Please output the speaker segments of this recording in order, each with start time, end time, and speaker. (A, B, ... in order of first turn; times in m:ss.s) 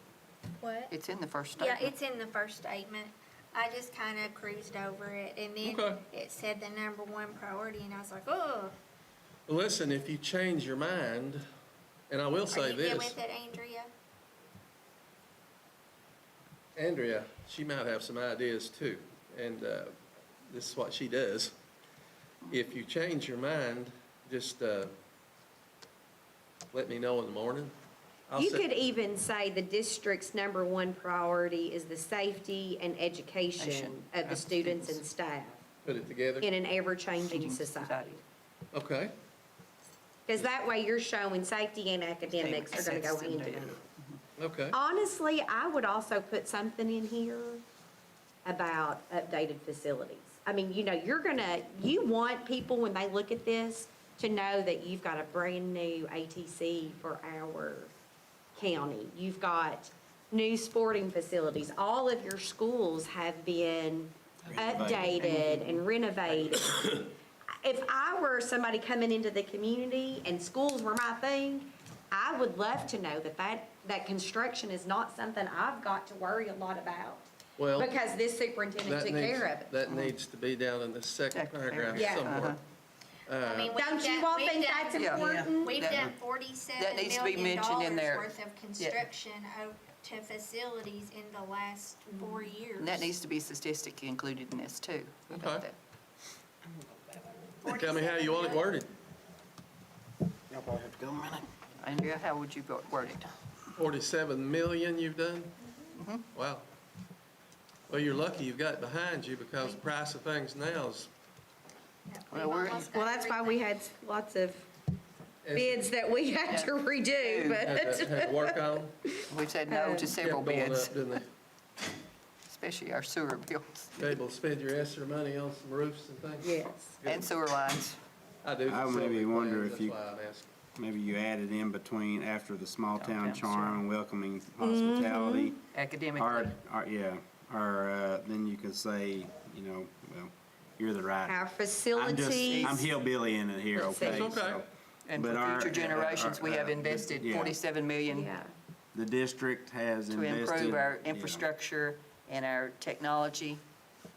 0:00.6-0:00.9 A
0:00.9-0:01.9 B
0:01.6-0:08.7 A
0:05.6-0:06.0 C
0:09.5-0:11.4 C
0:12.1-0:13.2 C
0:12.5-0:13.9 A
0:16.8-0:20.0 C
0:20.5-0:21.6 C
0:22.5-0:24.9 C
0:26.7-0:27.8 C
0:28.3-0:28.7 C
0:28.4-0:35.6 D
0:33.6-0:35.0 B
0:35.8-0:36.5 C
0:36.4-0:38.2 D
0:37.3-0:38.2 B
0:38.7-0:39.2 C
0:40.3-0:43.8 D
0:42.3-0:44.2 B
0:44.4-0:44.8 C
0:44.7-0:47.6 D
0:48.4-0:57.9 D
0:58.6-1:19.8 D
1:04.5-1:05.2 E
1:05.3-1:05.6 B
1:17.6-1:18.0 C
1:18.8-1:22.6 C
1:19.9-1:20.1 B
1:21.3-1:22.6 B
1:22.0-1:22.5 D
1:23.3-1:23.7 C
1:23.4-1:33.1 A
1:23.7-1:25.8 D
1:25.0-1:26.1 B
1:26.8-1:29.0 B
1:32.8-1:35.8 B
1:35.3-1:35.6 C
1:37.6-1:38.8 A
1:37.6-1:38.9 C
1:40.5-1:41.5 E
1:41.8-1:43.3 B
1:43.8-1:45.6 C
1:46.0-1:46.2 B
1:46.3-1:46.7 C
1:47.9-1:51.1 C
1:52.1-1:53.6 A
1:52.3-1:52.9 B
1:52.7-1:54.7 D
1:55.4-1:55.9 C
1:55.5-2:00.1 D
1:56.5-1:57.7 B
1:57.6-1:59.0 C
1:59.3-2:01.2 B
2:00.2-2:01.2 C
2:02.5-2:04.0 B
2:04.0-2:06.5 C
2:06.4-2:07.0 D
2:07.0-2:07.3 C
2:07.0-2:08.0 B
2:08.4-2:10.5 C
2:08.7-2:10.0 E
2:10.8-2:15.6 E
2:13.0-2:13.8 B
2:14.6-2:15.5 D
2:15.7-2:16.6 B
2:16.2-2:21.4 E
2:21.3-2:22.8 D
2:22.0-2:27.6 E
2:22.4-2:22.9 B
2:23.8-2:24.4 D
2:24.0-2:24.7 C
2:25.1-2:28.3 B
2:28.1-2:28.5 D
2:28.9-2:31.5 E
2:30.1-2:33.6 B